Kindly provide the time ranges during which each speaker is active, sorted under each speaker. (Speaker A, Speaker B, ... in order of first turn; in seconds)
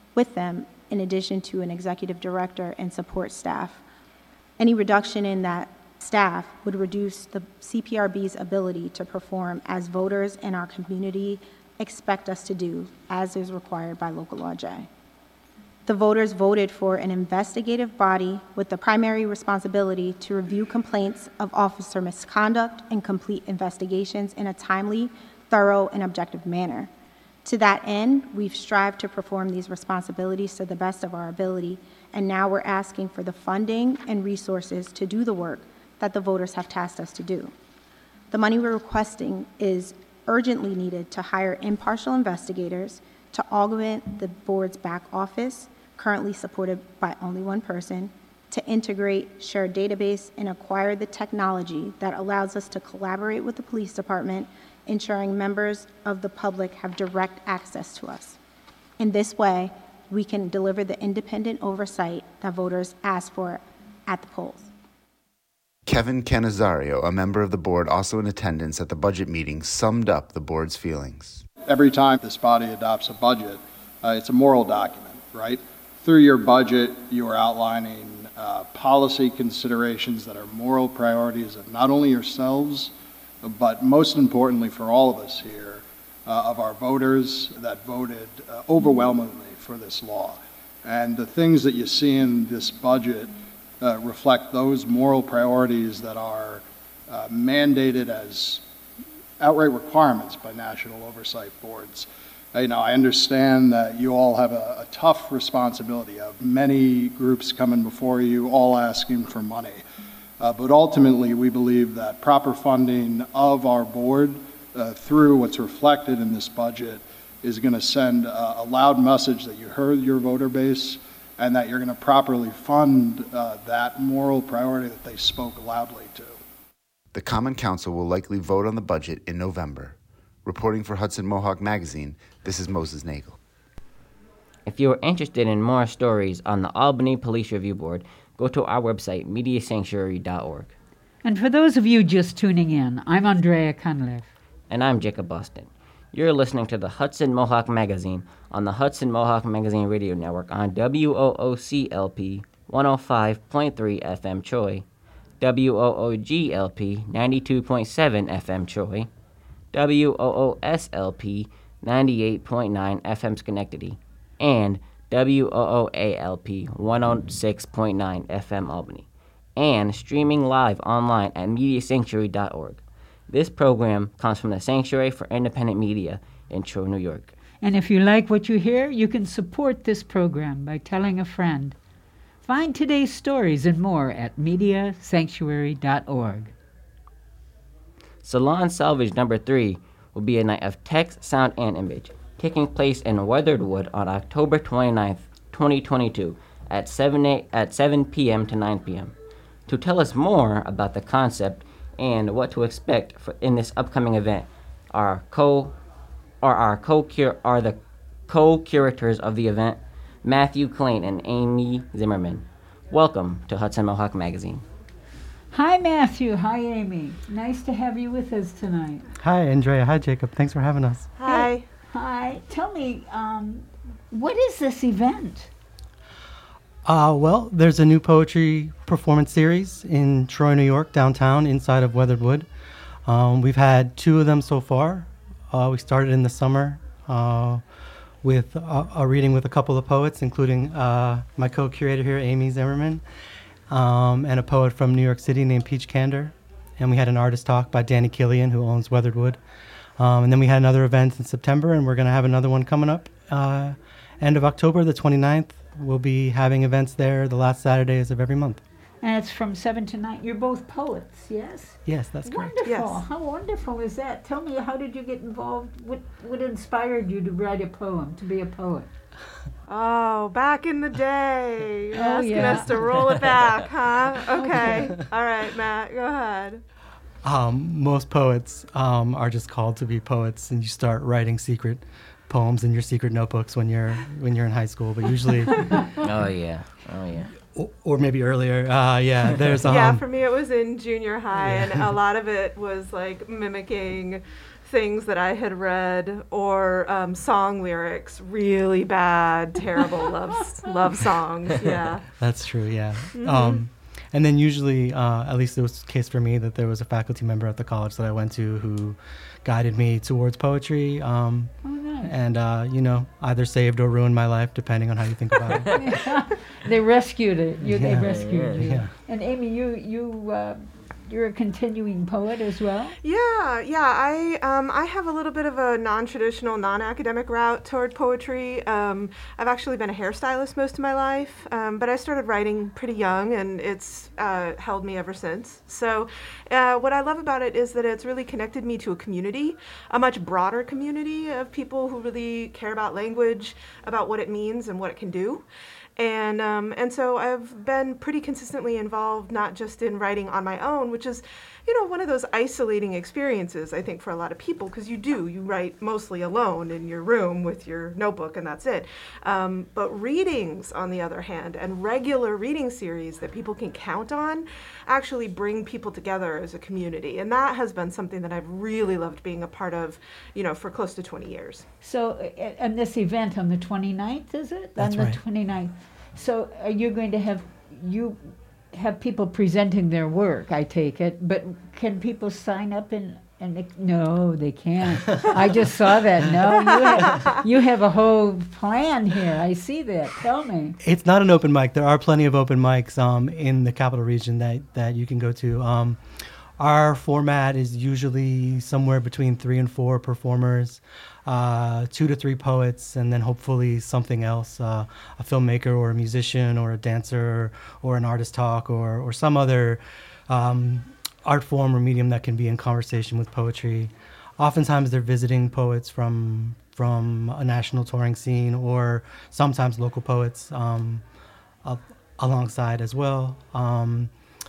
Speaker A: 0.1-3.8, 4.6-14.9, 15.9-26.9, 27.4-37.5, 38.3-58.4, 59.0-64.7
Speaker B: 65.9-71.5, 127.1-133.4
Speaker C: 71.7-98.6, 99.4-109.8, 110.4-126.4
Speaker D: 134.7-140.7, 144.7-154.9, 155.4-159.1, 159.7-177.3, 188.2-199.1, 199.7-205.8, 206.4-214.6, 286.0-287.3, 318.0-318.8
Speaker E: 141.2-144.3, 177.6-181.8, 182.4-186.5, 215.5-219.1, 221.3-225.5, 259.0-268.9, 271.9-273.2, 274.4-274.9, 311.6-312.1, 315.7-322.9, 371.8-390.8
Speaker F: 219.2-221.1, 226.9-232.5, 233.1-237.6, 238.2-243.0, 243.7-249.4, 250.0-258.6, 261.9-262.5, 277.2-285.6, 287.5-290.0, 291.4-291.9, 302.1-315.7, 317.6-318.9, 374.8-375.2, 390.8-396.0, 396.6-421.0, 421.6-424.1
Speaker G: 221.2-221.7, 262.6-263.0, 269.7-276.6, 289.7-302.1, 303.1-303.6, 323.0-345.5, 346.0-371.7